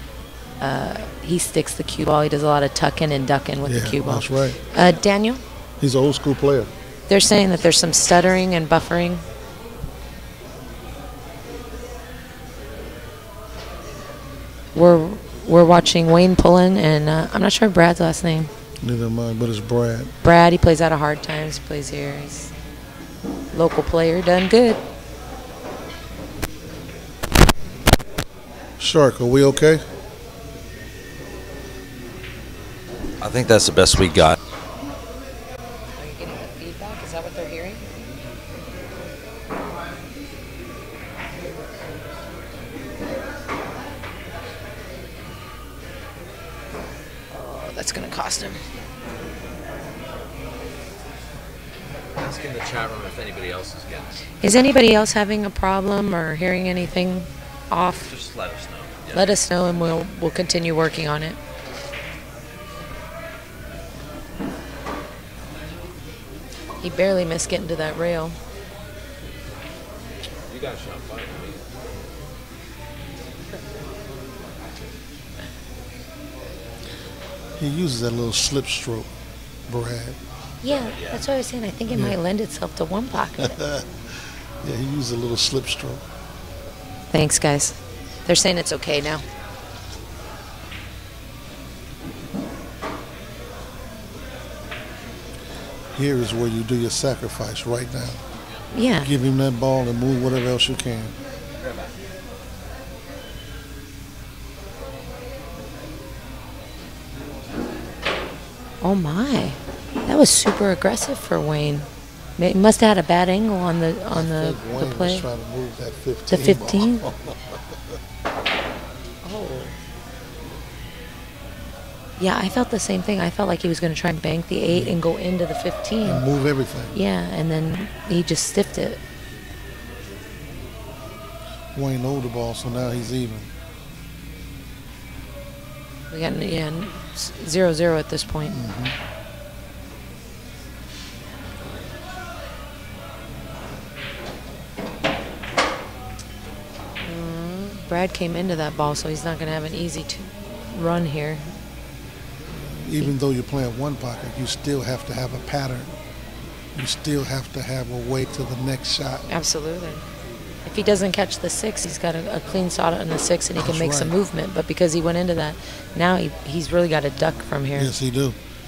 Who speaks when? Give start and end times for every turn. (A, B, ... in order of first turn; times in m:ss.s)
0:00.6-0:05.4 A
0:03.6-0:04.6 B
0:05.8-0:06.7 B
0:07.1-0:09.2 A
0:14.8-0:18.5 A
0:18.8-0:20.1 B
0:20.2-0:22.5 A
0:23.5-0:24.8 A
0:28.8-0:29.8 B
0:33.2-0:34.4 C
0:36.0-0:37.8 A
0:47.3-0:48.6 A
0:52.2-0:54.1 C
0:54.4-0:58.1 A
0:58.0-0:59.4 C
0:59.1-1:01.4 A
1:06.8-1:08.4 A
1:10.5-1:11.7 C
1:17.6-1:19.1 B
1:19.7-1:20.2 B
1:20.6-1:23.6 A
1:20.7-1:21.3 C
1:21.9-1:22.2 B
1:23.4-1:26.0 B
1:27.1-1:29.2 A
1:35.9-1:38.2 B
1:38.7-1:39.1 A
1:39.0-1:41.1 B
1:41.6-1:41.9 C
1:48.8-1:55.2 A
1:54.1-1:57.6 B
1:56.3-1:57.0 A
1:59.2-1:59.7 A
2:02.2-2:06.2 A
2:04.7-2:05.0 B
2:06.0-2:07.0 B
2:06.9-2:09.0 A
2:11.7-2:13.5 B
2:16.1-2:18.6 A
2:18.5-2:18.9 B
2:27.1-2:31.4 A
2:32.5-2:35.9 B
2:36.7-2:39.2 B
2:39.3-2:40.0 A
2:40.7-2:47.9 A
2:43.6-2:44.1 B
2:47.8-2:48.4 B